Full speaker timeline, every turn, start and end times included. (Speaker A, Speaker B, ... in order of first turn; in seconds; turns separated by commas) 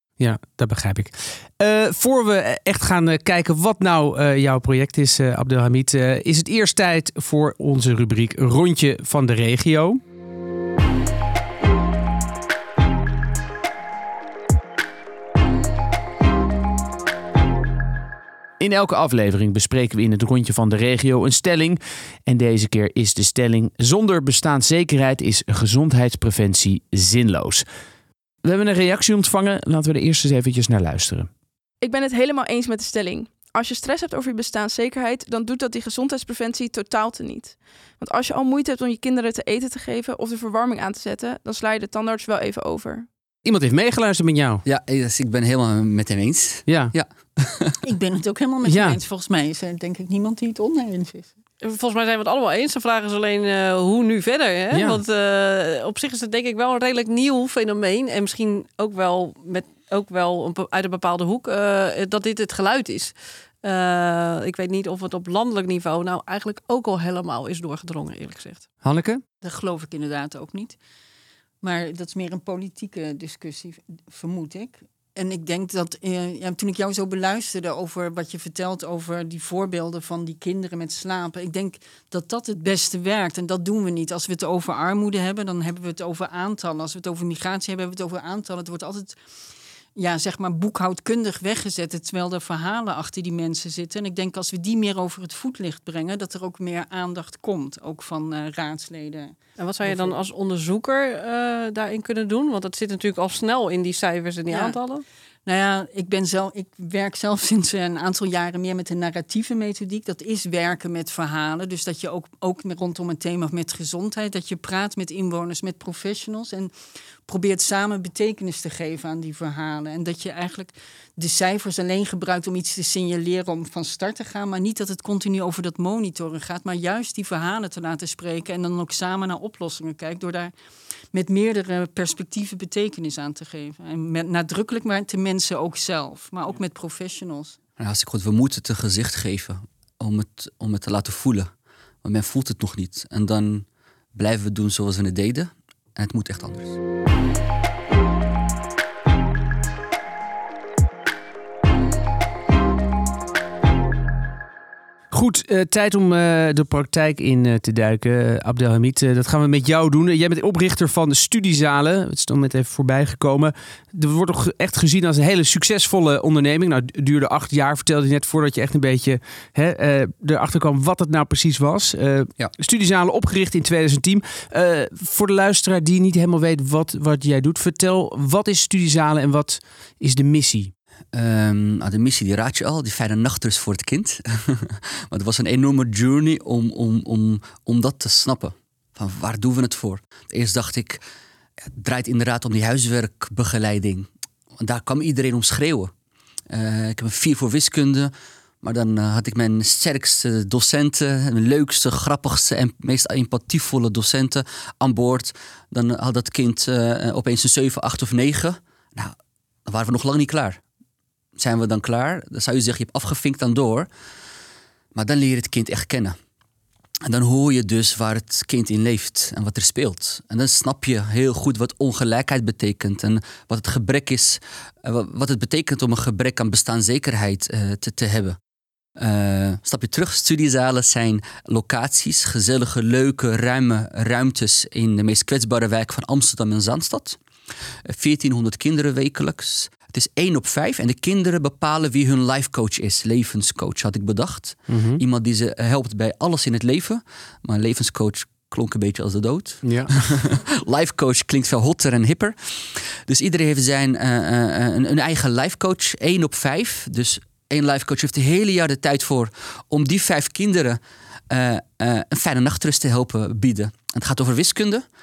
Speaker A: 0.2-10.0, Speaker A: 18.6-27.6, Speaker A: 28.4-31.3, Speaker B: 31.8-43.1, Speaker A: 43.4-44.6, Speaker C: 44.6-47.8, Speaker A: 46.7-46.9, Speaker D: 47.8-51.3, Speaker A: 48.7-49.0, Speaker E: 51.6-68.7, Speaker A: 54.7-55.0, Speaker A: 68.8-69.2, Speaker D: 69.4-70.8, Speaker D: 71.6-89.2, Speaker D: 90.0-100.2, Speaker E: 99.6-105.0, Speaker D: 104.5-104.8, Speaker D: 105.5-116.7, Speaker D: 117.3-130.5, Speaker D: 131.1-137.6, Speaker C: 137.8-141.5, Speaker C: 142.0-146.8, Speaker A: 155.1-180.7, Speaker C: 181.1-191.0, Speaker C: 191.8-195.9, Speaker C: 196.5-210.6, Speaker C: 211.4-213.9, Speaker C: 214.9-216.2, Speaker C: 217.1-228.4, Speaker C: 229.0-237.2, Speaker C: 237.9-264.8, Speaker A: 244.7-245.0, Speaker A: 249.6-249.9